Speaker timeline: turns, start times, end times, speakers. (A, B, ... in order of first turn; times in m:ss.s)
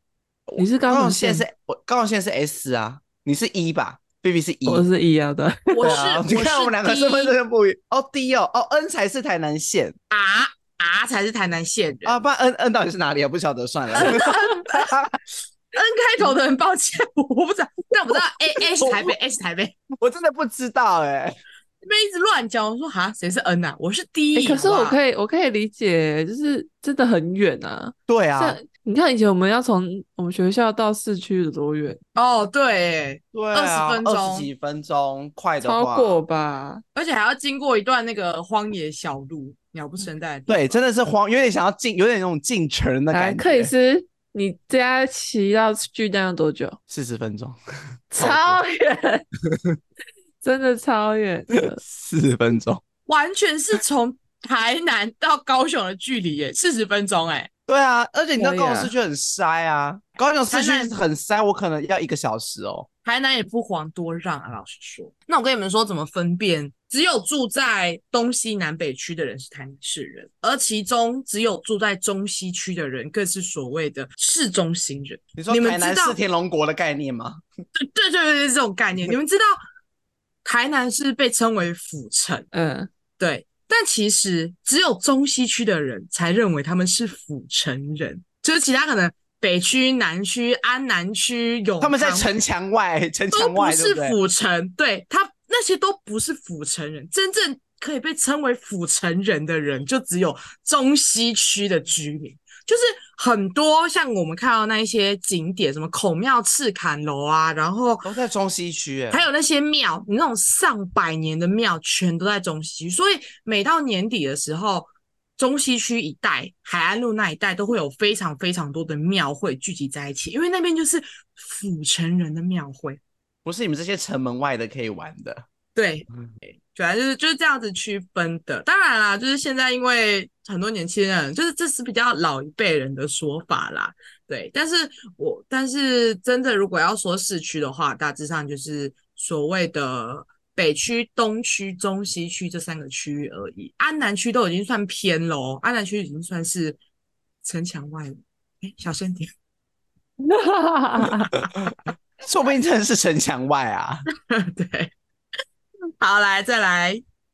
0:00.5-0:04.8 A
0:00.6-0:01.4 B
0:04.6-0:06.0 B
0:05.7-0:07.4 C
0:05.8-0:09.9 A
0:10.1-0:12.2 C
0:12.0-0:15.2 A
0:14.0-0:14.9 C
0:15.7-0:19.8 C
0:18.8-0:19.1 A
0:20.0-0:21.4 A
0:21.8-0:25.0 C
0:24.3-0:32.0 B
0:28.1-0:28.6 A
0:32.1-0:34.5 C
0:33.3-0:36.2 A
0:35.6-0:36.8 B
0:36.9-0:40.6 C
0:40.5-0:43.7 A
0:43.1-0:46.8 B
0:46.9-0:47.6 A
0:48.1-0:49.2 B
0:48.1-0:48.6 A
0:49.5-0:49.8 A
0:50.4-0:51.8 B
0:51.5-0:52.8 A
0:53.1-0:57.5 C
0:57.7-1:02.9 A
0:58.4-0:58.9 B
1:00.5-1:01.0 C
1:03.0-1:16.2 C
1:15.4-1:17.4 A
1:17.7-1:19.6 C
1:20.4-1:22.5 C
1:22.5-1:22.9 B
1:23.2-1:32.3 C
1:31.8-1:34.2 A
1:33.3-1:48.1 C
1:48.0-1:49.2 A
1:49.1-2:03.0 C
2:03.4-2:05.4 A
2:05.7-2:26.8 C
2:27.4-2:29.3 C
2:30.2-2:31.3 B
2:31.6-2:34.0 A
2:34.3-2:34.9 C
2:36.0-2:37.0 C